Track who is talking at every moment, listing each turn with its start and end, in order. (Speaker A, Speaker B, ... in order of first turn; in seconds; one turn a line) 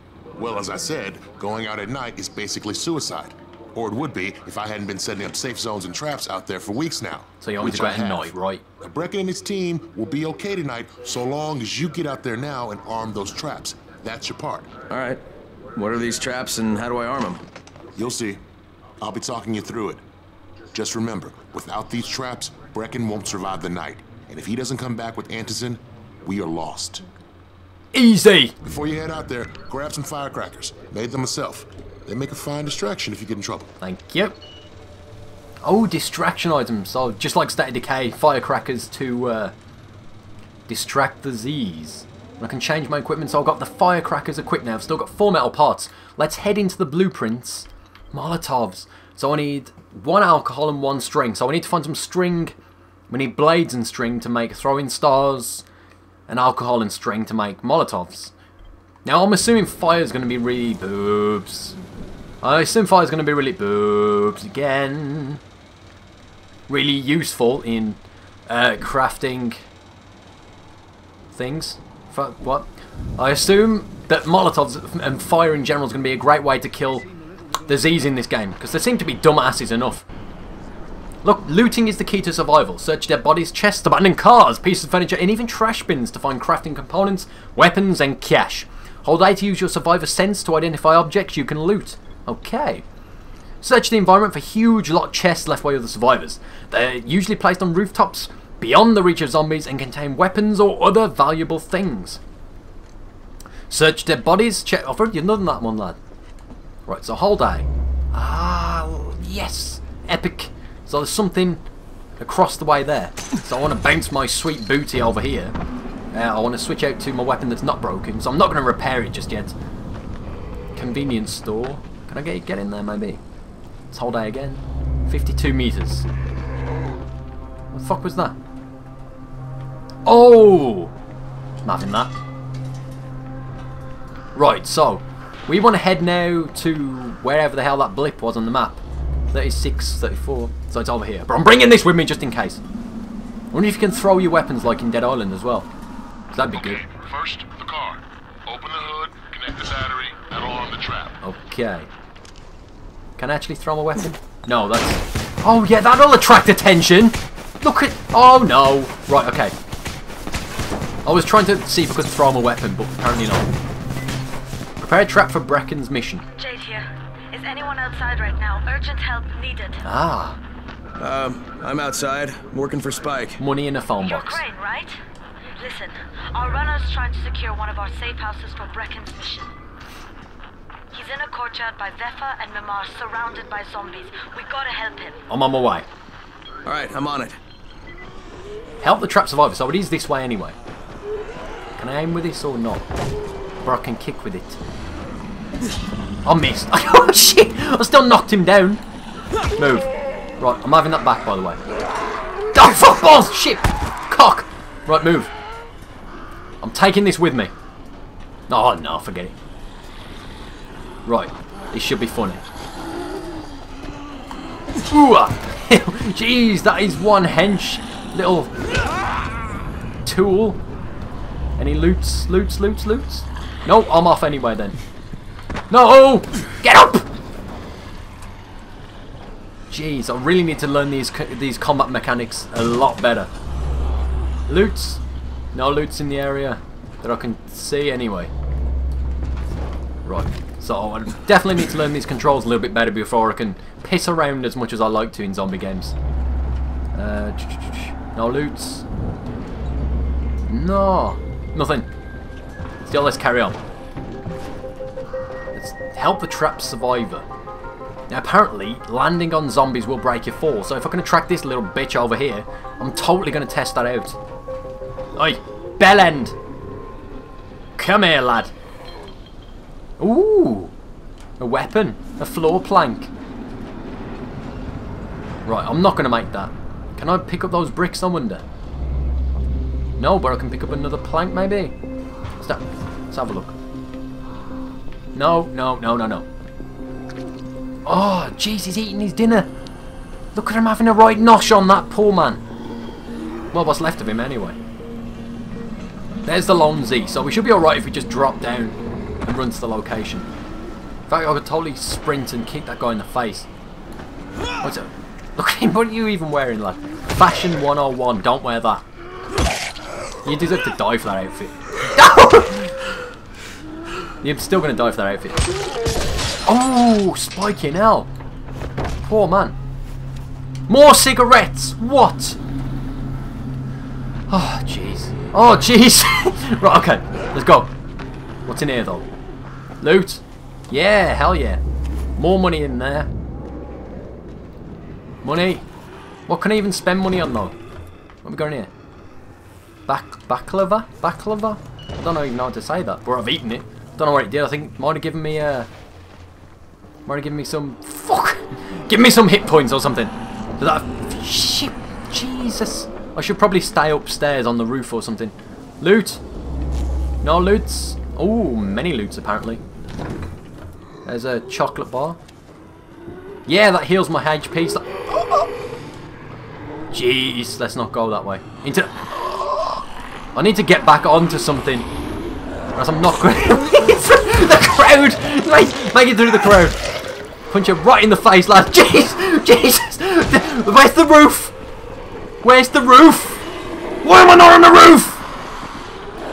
Speaker A: 0.3-14.7
Speaker B: 7.4-8.6
Speaker C: 14.9-15.2
Speaker C: 15.8-17.4
Speaker A: 17.9-18.4
Speaker A: 19.0-20.0
Speaker A: 20.7-27.1
Speaker B: 27.9-28.5
Speaker A: 28.6-33.7
Speaker B: 33.8-34.4
Speaker B: 35.6-39.5
Speaker B: 40.7-52.5
Speaker B: 53.1-55.6
Speaker B: 56.3-58.3
Speaker B: 59.0-61.8
Speaker B: 62.4-65.4
Speaker B: 66.7-69.6
Speaker B: 71.3-77.1
Speaker B: 77.7-80.0
Speaker B: 81.2-92.8
Speaker B: 93.6-102.2
Speaker B: 103.7-106.0
Speaker B: 106.9-111.6
Speaker B: 112.2-115.6
Speaker B: 116.1-119.6
Speaker B: 120.7-123.2
Speaker B: 123.9-126.1
Speaker B: 127.7-128.4
Speaker B: 130.0-130.9
Speaker B: 131.6-132.1
Speaker B: 134.3-138.8
Speaker B: 139.3-142.6
Speaker B: 143.5-145.7
Speaker B: 146.3-146.8
Speaker A: 146.7-148.0
Speaker A: 148.5-150.3
Speaker B: 151.2-151.9
Speaker B: 153.2-159.5
Speaker B: 161.0-163.5
Speaker B: 164.8-166.2
Speaker D: 166.4-169.8
Speaker B: 169.8-170.4
Speaker C: 171.0-173.4
Speaker B: 173.4-174.4
Speaker D: 174.0-174.9
Speaker D: 175.6-179.5
Speaker D: 180.9-185.2
Speaker B: 185.3-185.9
Speaker C: 186.7-187.4
Speaker B: 188.8-190.6
Speaker B: 191.8-192.9
Speaker B: 193.6-194.6
Speaker B: 196.2-198.8
Speaker B: 199.6-201.6
Speaker B: 202.5-205.3
Speaker B: 206.6-207.5
Speaker B: 208.5-209.3
Speaker B: 211.1-212.4
Speaker B: 214.8-218.5
Speaker B: 220.0-220.6
Speaker B: 221.6-224.8
Speaker B: 225.7-227.1
Speaker B: 229.7-233.3
Speaker B: 234.5-235.0
Speaker B: 235.5-238.3
Speaker B: 240.0-245.9
Speaker B: 246.9-248.8
Speaker B: 250.5-251.9
Speaker B: 252.8-253.6
Speaker B: 255.5-257.2
Speaker B: 258.1-264.2
Speaker B: 265.1-266.4
Speaker B: 267.8-268.5
Speaker B: 270.0-270.7
Speaker B: 271.4-273.1
Speaker B: 275.4-278.4
Speaker B: 280.0-281.7
Speaker B: 282.4-283.6
Speaker B: 285.1-286.2
Speaker B: 287.9-289.5
Speaker B: 290.4-292.4
Speaker B: 293.5-294.6
Speaker B: 296.2-300.2
Speaker B: 301.1-303.5
Speaker B: 304.6-308.8
Speaker B: 310.2-312.7
Speaker B: 314.2-315.5
Speaker B: 316.4-318.1
Speaker B: 319.1-319.6
Speaker B: 320.7-322.4
Speaker B: 324.3-327.7
Speaker B: 328.4-329.1
Speaker B: 329.8-331.6
Speaker B: 332.2-333.1
Speaker B: 335.2-335.6
Speaker B: 336.3-337.5
Speaker B: 338.2-338.7
Speaker B: 339.9-345.7
Speaker B: 347.1-356.2
Speaker B: 357.2-359.6
Speaker B: 361.1-362.2
Speaker B: 363.4-365.5
Speaker B: 366.9-371.9
Speaker B: 372.7-376.8
Speaker B: 377.5-381.5
Speaker B: 382.4-383.4
Speaker B: 384.0-385.2